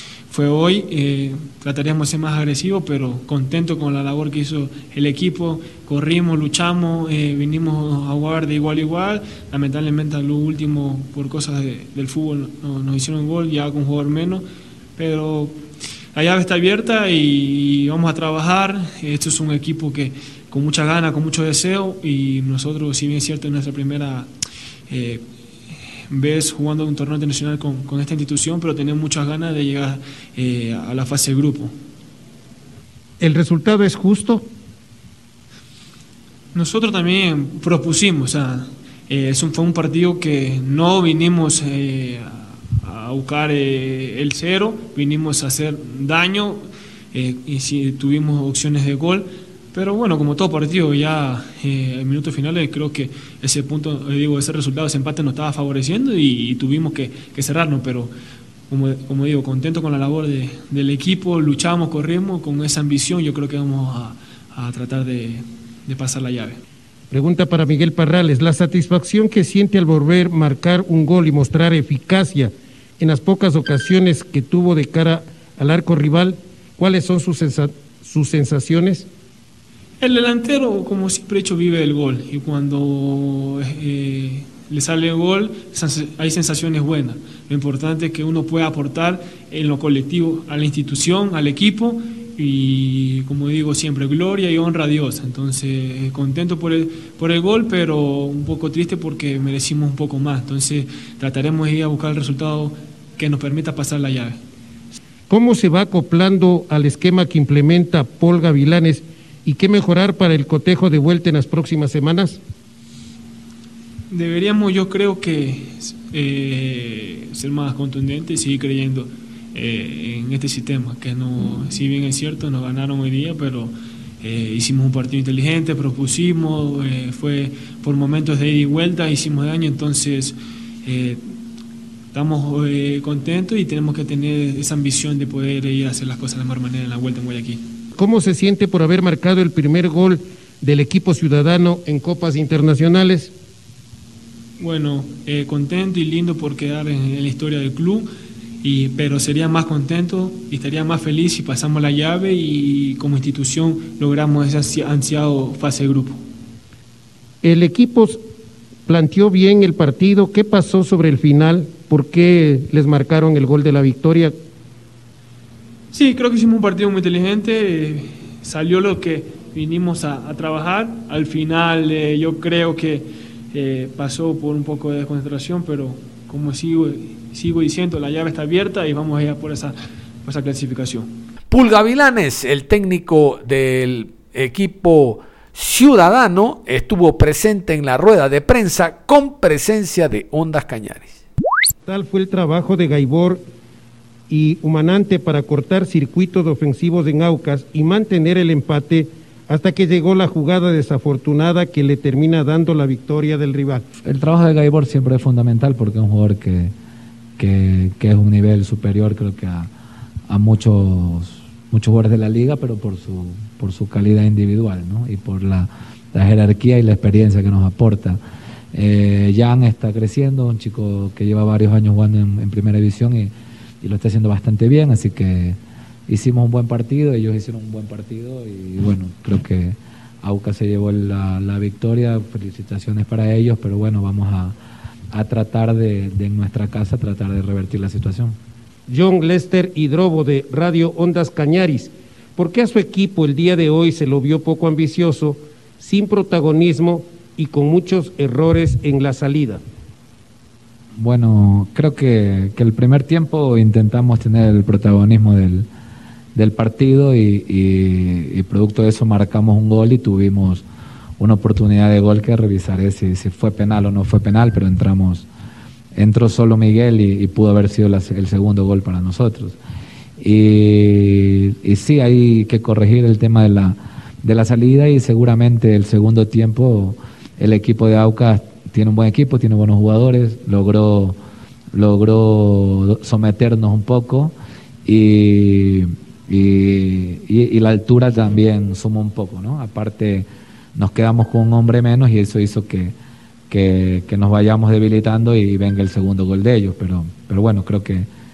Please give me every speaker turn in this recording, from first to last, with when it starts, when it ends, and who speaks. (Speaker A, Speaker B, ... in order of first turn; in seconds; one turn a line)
Speaker A: 0.3-14.4
Speaker A: 15.0-15.6
Speaker A: 16.1-24.3
Speaker A: 24.9-25.2
Speaker A: 26.1-31.7
Speaker B: 33.2-34.5
Speaker A: 36.5-58.1
Speaker A: 58.7-66.6
Speaker B: 67.1-79.1
Speaker A: 80.0-104.4
Speaker B: 105.3-112.4
Speaker A: 114.1-131.2
Speaker A: 132.1-137.6
Speaker B: 137.9-143.3
Speaker A: 144.6-148.1
Speaker A: 148.6-156.2
Speaker B: 157.4-158.2
Speaker B: 158.8-164.3
Speaker A: 165.9-181.1
Speaker C: 181.5-191.2
Speaker B: 191.8-193.4
Speaker B: 194.3-203.8
Speaker D: 204.0-206.7
Speaker D: 207.4-209.7
Speaker D: 210.3-218.2
Speaker D: 218.7-234.6
Speaker D: 235.1-238.4
Speaker B: 238.9-249.6
Speaker D: 251.0-255.7
Speaker D: 256.3-260.6
Speaker D: 261.2-265.3
Speaker D: 265.9-269.6
Speaker D: 270.2-281.2
Speaker D: 281.7-284.3
Speaker D: 284.8-292.9
Speaker D: 293.5-298.1